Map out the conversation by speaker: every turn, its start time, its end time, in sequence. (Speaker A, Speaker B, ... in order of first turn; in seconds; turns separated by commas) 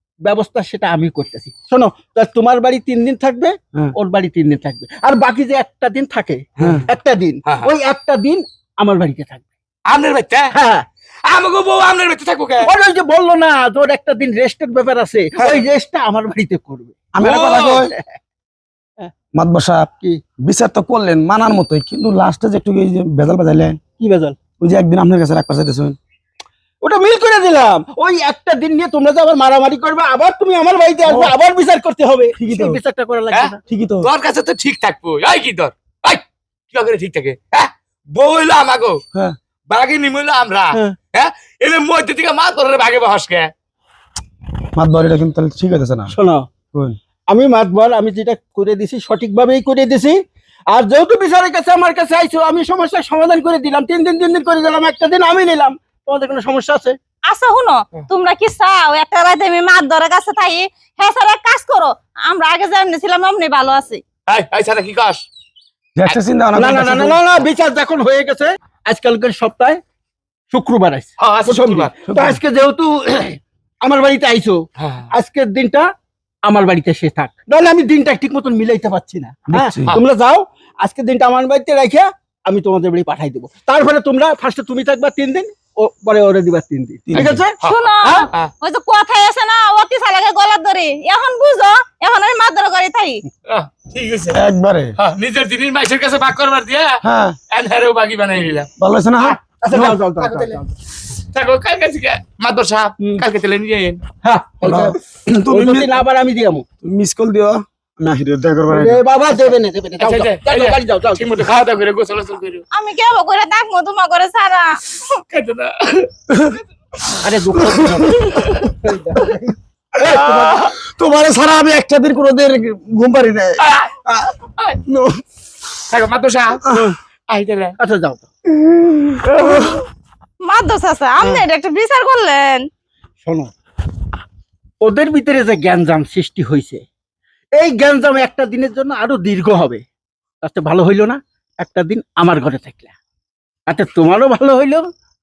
Speaker A: 0.2-9.4, Speaker B: 7.4-7.7, Speaker B: 9.9-10.5, Speaker A: 10.5-10.8, Speaker B: 11.2-12.7, Speaker A: 12.6-17.1, Speaker C: 17.1-17.9, Speaker B: 17.2-17.8, Speaker A: 17.9-18.2, Speaker C: 19.3-19.9, Speaker C: 20.4-23.8, Speaker A: 24.0-24.4, Speaker C: 24.6-25.9, Speaker A: 26.8-33.6, Speaker C: 31.1-31.3, Speaker C: 32.3-32.8, Speaker B: 33.3-39.0, Speaker C: 33.7-34.1, Speaker B: 39.7-43.5, Speaker C: 44.7-46.1, Speaker A: 46.1-46.5, Speaker A: 47.3-50.2, Speaker A: 50.7-57.0, Speaker D: 57.3-64.0, Speaker B: 64.3-65.2, Speaker C: 66.0-67.2, Speaker A: 66.5-69.8, Speaker A: 70.5-75.9, Speaker B: 71.2-72.0, Speaker C: 72.0-72.4, Speaker B: 74.8-75.1, Speaker A: 76.4-88.2, Speaker C: 79.5-80.0, Speaker C: 87.1-87.4, Speaker B: 87.1-88.5, Speaker D: 87.6-93.2, Speaker B: 93.5-94.4, Speaker C: 94.3-94.9, Speaker B: 95.0-98.7, Speaker C: 97.0-97.4, Speaker C: 98.8-99.9, Speaker A: 99.6-100.7, Speaker B: 100.2-100.5, Speaker B: 101.3-104.0, Speaker A: 104.2-105.0, Speaker C: 104.6-106.0, Speaker A: 105.5-106.7, Speaker C: 106.8-109.0, Speaker A: 108.7-111.5, Speaker B: 110.0-112.6, Speaker D: 112.7-115.0, Speaker B: 115.3-116.1, Speaker C: 116.3-116.6, Speaker A: 117.2-119.6, Speaker C: 117.6-118.6, Speaker C: 120.0-124.3, Speaker B: 120.0-120.7, Speaker B: 123.6-123.9, Speaker C: 124.8-125.2, Speaker B: 125.9-126.6, Speaker C: 126.6-126.9, Speaker B: 127.3-127.8, Speaker A: 127.8-128.3, Speaker C: 128.6-129.8, Speaker B: 129.2-129.8, Speaker D: 130.4-132.6, Speaker A: 133.2-133.5, Speaker A: 134.8-136.8, Speaker A: 137.5-139.8, Speaker A: 140.4-142.9, Speaker A: 143.7-144.8